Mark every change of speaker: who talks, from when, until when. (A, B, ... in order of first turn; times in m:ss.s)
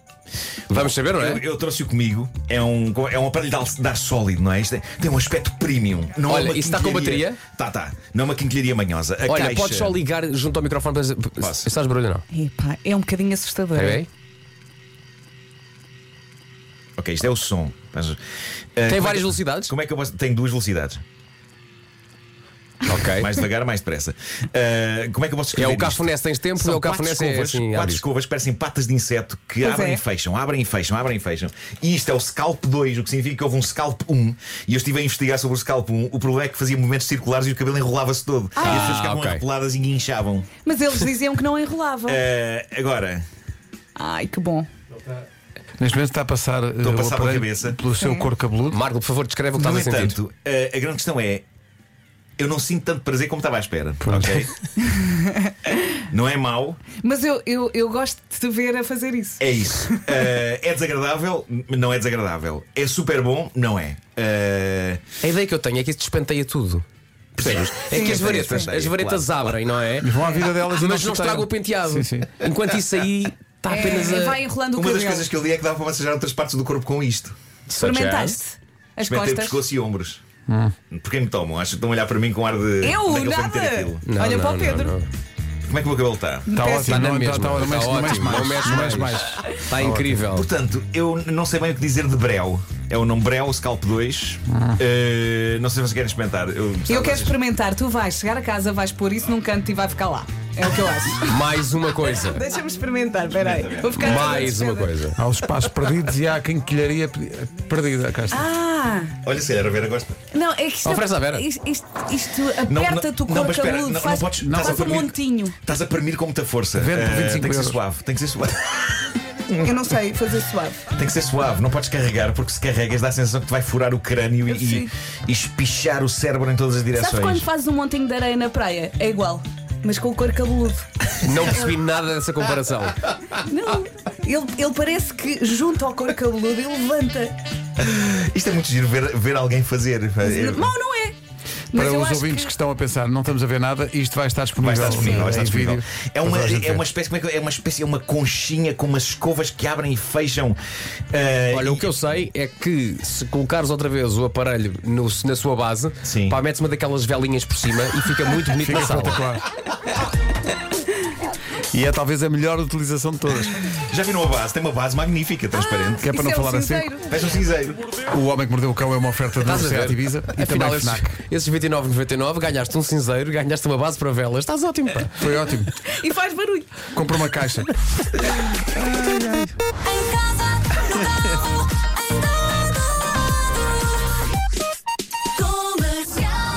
0:00.7-0:01.4 A
0:00.7-0:10.0 B
0:06.2-0:07.4 A
0:09.3-0:12.2 A
0:11.4-0:11.7 B
0:12.3-0:14.0 C
0:13.7-0:14.1 A
0:17.0-0:18.2 B
0:18.8-0:21.0 B
0:18.9-0:19.7 A
0:22.8-0:23.3 A
0:23.1-0:40.5 B
0:25.6-0:28.0 A
0:29.6-0:30.0 C
0:38.6-0:39.0 C
0:38.6-0:39.4 A
0:40.6-0:42.2 C
0:42.1-0:43.2 B
0:44.0-0:44.7 C
0:45.8-0:48.8 D
0:46.8-0:47.8 B
0:48.0-0:48.3 C
0:48.7-0:50.2 A
0:49.6-0:51.4 B
0:52.4-0:54.5 B
0:54.0-0:54.5 D
0:54.8-0:55.7 C
0:55.9-0:56.8 B
0:57.0-0:59.4 C
0:59.4-1:05.0 B
1:05.2-1:06.8 A
1:07.4-1:09.3 B
1:07.4-1:14.4 A
1:07.9-1:08.7 C
1:10.0-1:12.3 D
1:13.7-1:15.3 C
1:14.7-1:17.3 B
1:17.7-1:18.4 A
1:17.8-1:19.6 C
1:19.0-1:20.2 B
1:20.5-1:20.7 D
1:20.9-1:24.0 B
1:22.8-1:25.0 C
1:24.0-1:25.1 A
1:25.7-1:26.5 B
1:26.5-1:27.2 C
1:26.5-1:30.2 D
1:26.7-1:30.5 A
1:28.3-1:28.9 C
1:30.3-1:37.4 B
1:34.5-1:34.8 D
1:36.9-1:41.4 C
1:41.2-1:42.4 A
1:42.2-1:44.9 C
1:43.3-1:44.5 B
1:43.9-1:45.2 A
1:45.2-1:48.5 D
1:48.3-1:49.1 C
1:49.2-1:50.1 B
1:50.3-1:55.5 C
1:50.8-1:51.4 A
1:52.6-1:59.7 B
1:54.4-1:54.9 D
1:56.7-1:57.8 D
1:59.6-2:00.8 C
2:00.9-2:07.4 B
2:04.5-2:04.9 C
2:06.9-2:10.8 C
2:11.2-2:13.0 A
2:11.4-2:11.7 C
2:13.4-2:17.4 C
2:17.8-2:20.7 B
2:20.2-2:21.2 C
2:21.7-2:22.5 C
2:21.7-2:26.8 D
2:24.6-2:30.6 B
2:24.8-2:25.2 A
2:31.1-2:31.9 B
2:31.5-2:39.2 A
2:36.0-2:36.4 B
2:38.6-2:39.4 D
2:41.7-2:43.6 D
2:43.9-2:46.1 B
2:45.6-2:47.1 C
2:46.0-2:46.9 D
2:47.1-2:47.9 B
2:48.1-2:51.1 D
2:49.4-2:55.2 A
2:55.2-2:55.7 D
2:55.8-2:56.8 C
2:56.9-2:57.7 D
2:58.8-2:59.5 D
3:05.5-3:06.2 C